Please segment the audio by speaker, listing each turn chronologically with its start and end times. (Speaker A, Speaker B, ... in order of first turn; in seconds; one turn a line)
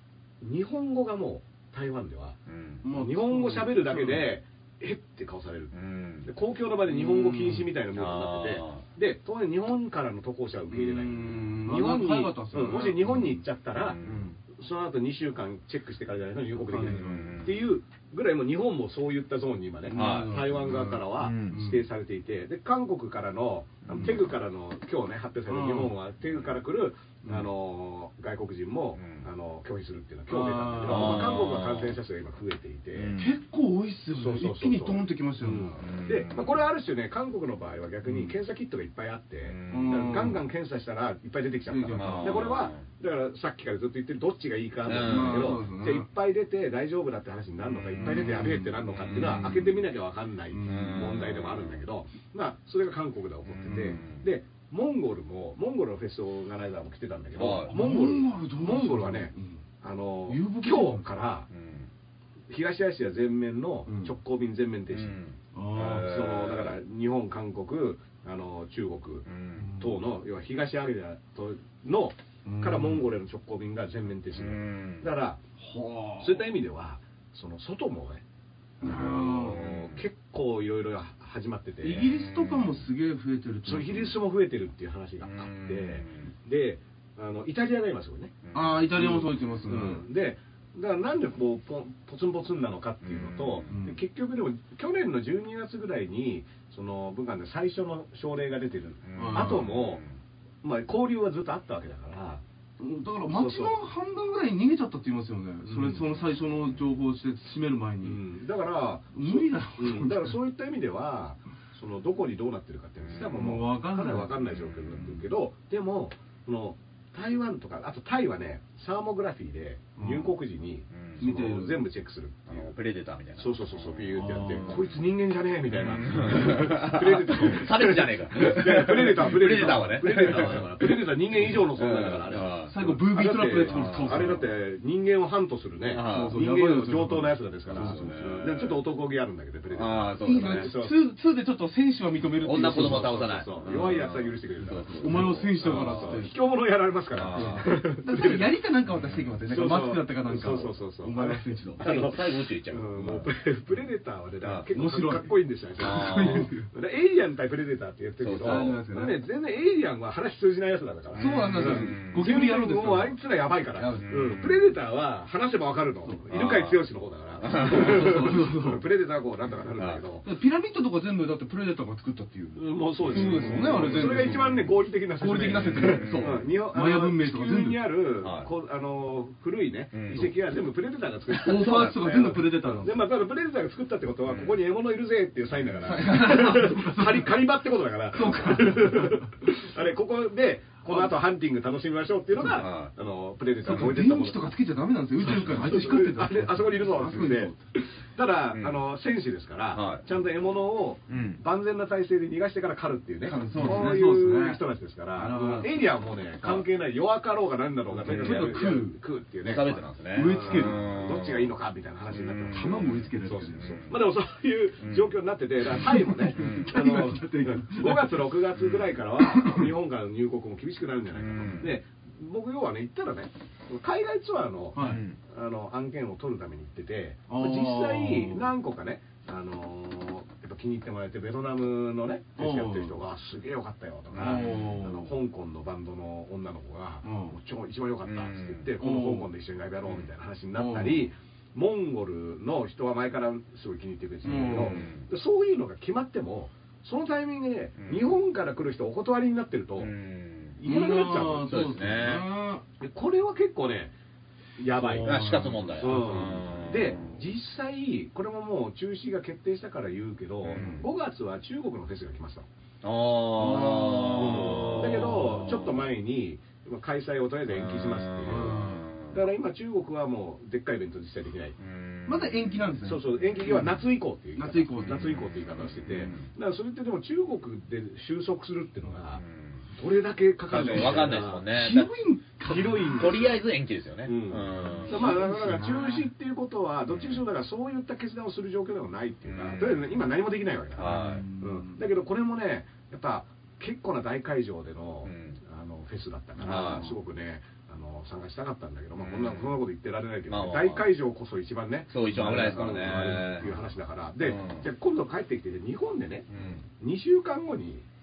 Speaker A: 0.4-33.2
Speaker B: 2.5-2.8
Speaker C: 2.8-4.3
Speaker B: 5.7-6.3
Speaker C: 6.9-7.6
Speaker B: 7.9-8.8
Speaker C: 10.7-13.3
Speaker B: 13.7-14.3
Speaker C: 14.0-14.3
Speaker C: 16.6-17.4
Speaker B: 16.9-17.7
Speaker C: 19.9-21.8
Speaker B: 19.9-21.6
Speaker B: 23.9-24.1
Speaker C: 25.5-25.9
Speaker B: 28.9-29.2
Speaker C: 30.3-31.3
Speaker B: 30.8-31.9
Speaker B: 32.9-33.3
Speaker C: 33.1-35.9
Speaker A: 34.1-61.5
Speaker B: 35.8-36.6
Speaker B: 39.5-40.0
Speaker C: 39.7-40.4
Speaker C: 41.7-42.5
Speaker B: 41.9-42.8
Speaker B: 44.8-45.6
Speaker C: 44.9-46.1
Speaker C: 48.0-49.7
Speaker B: 48.9-49.7
Speaker C: 50.5-51.1
Speaker B: 50.6-51.8
Speaker B: 53.5-54.3
Speaker C: 53.7-54.0
Speaker B: 57.3-57.8
Speaker C: 57.7-59.5
Speaker C: 60.3-61.0
Speaker B: 61.5-61.9
Speaker A: 62.5-65.2
Speaker C: 63.9-64.1
Speaker B: 64.9-66.8
Speaker C: 65.5-66.1
Speaker A: 65.7-75.4
Speaker B: 69.2-69.7
Speaker C: 69.6-69.9
Speaker C: 72.4-73.0
Speaker B: 74.3-75.1
Speaker C: 75.6-76.5
Speaker A: 76.2-78.2
Speaker A: 78.8-82.2
Speaker C: 78.8-79.6
Speaker B: 79.4-80.0
Speaker C: 81.8-84.2
Speaker B: 82.2-82.8
Speaker A: 83.6-88.3
Speaker B: 85.2-86.3
Speaker B: 88.4-89.3
Speaker C: 88.5-90.0
Speaker A: 88.9-100.0
Speaker B: 93.0-93.7
Speaker C: 93.7-94.0
Speaker B: 99.0-100.1
Speaker C: 99.2-99.7
Speaker A: 100.6-102.4
Speaker C: 102.8-108.2
Speaker A: 103.3-103.8
Speaker A: 105.7-106.0
Speaker A: 108.0-122.7
Speaker C: 109.1-110.3
Speaker C: 113.2-114.4
Speaker C: 120.0-120.3
Speaker B: 120.9-121.3
Speaker C: 121.2-121.8
Speaker B: 122.5-124.8
Speaker A: 123.4-141.0
Speaker C: 124.2-124.8
Speaker B: 125.7-130.9
Speaker C: 129.3-130.6
Speaker B: 131.4-132.7
Speaker C: 132.7-134.4
Speaker B: 133.6-134.4
Speaker B: 135.8-136.4
Speaker C: 136.0-138.6
Speaker B: 137.7-138.8
Speaker B: 139.7-140.7
Speaker C: 140.2-143.5
Speaker B: 142.4-146.3
Speaker A: 142.5-148.6
Speaker C: 144.9-146.3
Speaker B: 147.1-147.7
Speaker C: 147.3-151.8
Speaker B: 148.9-149.3
Speaker A: 149.5-170.2
Speaker B: 151.8-153.3
Speaker C: 154.7-156.7
Speaker B: 155.8-156.5
Speaker B: 158.2-158.8
Speaker C: 158.4-159.2
Speaker C: 161.2-163.2
Speaker B: 161.2-162.2
Speaker C: 163.7-164.2
Speaker B: 164.1-164.4
Speaker B: 166.3-166.8
Speaker B: 167.4-168.2
Speaker C: 167.6-168.8
Speaker B: 169.8-170.0
Speaker C: 170.2-177.9
Speaker A: 172.6-194.5
Speaker B: 173.1-174.3
Speaker B: 175.8-176.4
Speaker B: 178.2-178.5
Speaker B: 179.9-180.3
Speaker C: 181.3-183.0
Speaker B: 181.6-182.1
Speaker B: 184.3-184.5
Speaker C: 185.8-187.3
Speaker C: 188.1-189.3
Speaker B: 192.3-192.9
Speaker C: 193.6-197.6
Speaker A: 195.2-249.9
Speaker B: 198.5-198.8
Speaker B: 199.7-200.0
Speaker B: 201.1-201.4
Speaker C: 203.2-204.6
Speaker C: 205.1-205.8
Speaker B: 206.4-206.6
Speaker C: 208.0-208.9
Speaker B: 209.4-211.5
Speaker C: 210.1-210.8
Speaker B: 212.1-214.0
Speaker C: 212.5-213.8
Speaker B: 214.8-215.1
Speaker C: 215.7-218.3
Speaker B: 216.3-216.7
Speaker B: 218.6-218.8
Speaker C: 219.2-219.7
Speaker B: 221.1-221.8
Speaker C: 224.7-225.0
Speaker B: 224.8-225.2
Speaker C: 227.3-228.5
Speaker C: 232.4-232.9
Speaker B: 234.1-234.7
Speaker C: 234.2-235.1
Speaker C: 237.0-237.4
Speaker B: 238.0-238.7
Speaker C: 238.8-239.3
Speaker C: 240.5-241.0
Speaker C: 244.2-244.9
Speaker B: 244.5-245.1
Speaker B: 247.8-248.1
Speaker B: 249.8-250.6
Speaker A: 250.6-251.7
Speaker C: 250.6-252.6
Speaker B: 251.5-252.3
Speaker A: 252.8-253.9
Speaker A: 254.6-262.5
Speaker C: 254.7-256.5
Speaker B: 255.0-257.2
Speaker B: 260.4-260.8
Speaker C: 260.5-260.8
Speaker B: 262.8-265.7
Speaker C: 263.4-265.6
Speaker A: 264.0-271.6
Speaker B: 267.5-269.2
Speaker C: 268.2-268.9
Speaker B: 271.6-272.6
Speaker C: 272.1-273.8
Speaker A: 272.8-279.2
Speaker C: 274.4-275.2
Speaker B: 274.8-276.3
Speaker B: 279.2-279.6
Speaker A: 279.7-281.5
Speaker B: 280.5-281.9
Speaker C: 280.7-283.3
Speaker A: 282.4-283.4
Speaker B: 282.9-285.1
Speaker A: 284.0-307.8
Speaker C: 284.8-286.1
Speaker B: 286.9-287.2
Speaker B: 289.2-289.9
Speaker B: 290.8-291.2
Speaker C: 290.8-291.8
Speaker B: 295.0-295.4
Speaker B: 296.4-296.9
Speaker B: 299.0-299.5
Speaker B: 300.3-300.9
Speaker B: 301.9-303.5
Speaker C: 302.2-303.3
Speaker B: 304.2-304.6
Speaker B: 306.3-306.6